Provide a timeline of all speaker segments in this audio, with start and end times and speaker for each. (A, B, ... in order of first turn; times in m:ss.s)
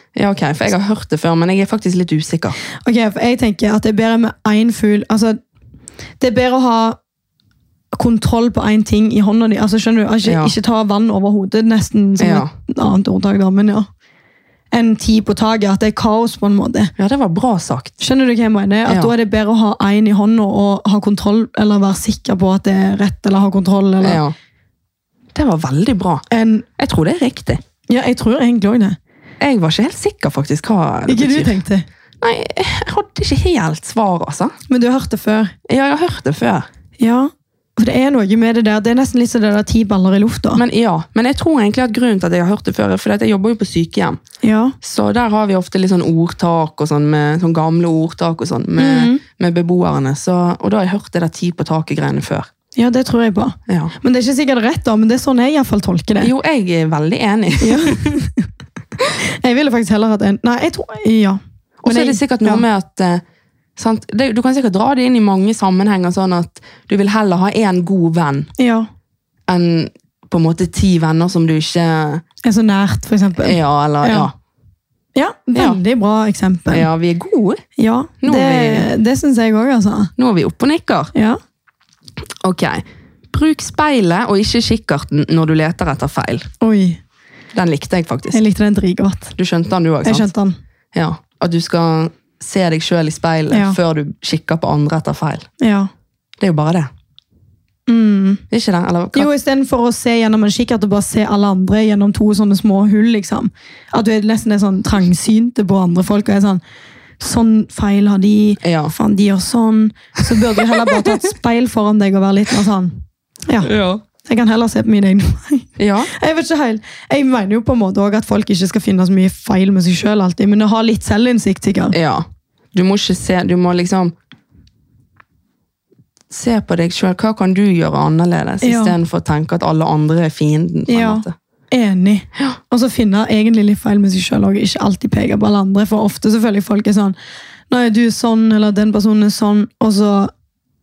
0:00.2-0:02.6 A
0:02.8-0:05.4 B
0:06.2-0:07.0 B
0:07.9-0:13.9 B
0:10.2-0:10.5 A
0:12.2-0:12.5 A
0:14.7-0:16.9 B
0:17.0-0:18.0 A
0:18.0-0:24.2 B
0:18.9-0:19.1 A
0:24.0-0:24.4 A
0:25.4-0:26.2 A
0:26.3-0:26.7 B
0:26.8-0:27.6 A
0:27.9-0:29.0 B
0:29.4-0:31.6 A
0:31.1-0:31.9 B
0:32.2-0:34.5 A
0:34.7-0:35.6 B
0:35.7-0:36.7 A
0:37.0-0:40.6 B
0:40.6-0:44.2 A
0:44.4-0:44.8 B
0:44.8-0:52.5 A
0:48.8-0:49.2 B
0:52.8-0:56.3 B
0:53.7-0:53.9 A
0:56.2-0:58.2 A
0:57.6-0:58.5 B
0:59.2-1:02.6 B
1:01.8-1:03.2 A
1:03.8-1:08.5 A
1:08.6-1:08.9 B
1:09.5-1:12.2 A
1:12.4-1:14.3 B
1:13.4-1:14.3 A
1:15.2-1:16.9 B
1:16.7-1:17.6 A
1:17.8-1:20.1 B
1:18.2-1:18.9 A
1:20.2-1:21.1 A
1:21.1-1:21.4 B
1:22.4-1:26.5 A
1:26.6-1:27.0 B
1:27.5-1:28.4 A
1:28.3-1:29.4 B
1:29.4-1:30.3 A
1:30.0-1:30.6 B
1:30.9-1:35.5 A
1:33.5-1:33.8 B
1:35.6-1:35.9 B
1:36.4-1:36.9 A
1:37.9-1:38.4 B
1:38.5-1:39.3 A
1:39.1-1:46.6 B
1:47.2-1:53.7 B
1:48.6-1:48.9 A
1:50.7-1:51.1 A
1:53.6-1:54.0 A
1:54.2-2:02.0 B
1:55.8-1:56.1 A
2:01.9-2:04.1 A
2:06.3-2:11.3 A
2:08.6-2:09.0 B
2:10.9-2:17.2 B
2:17.7-2:20.3 B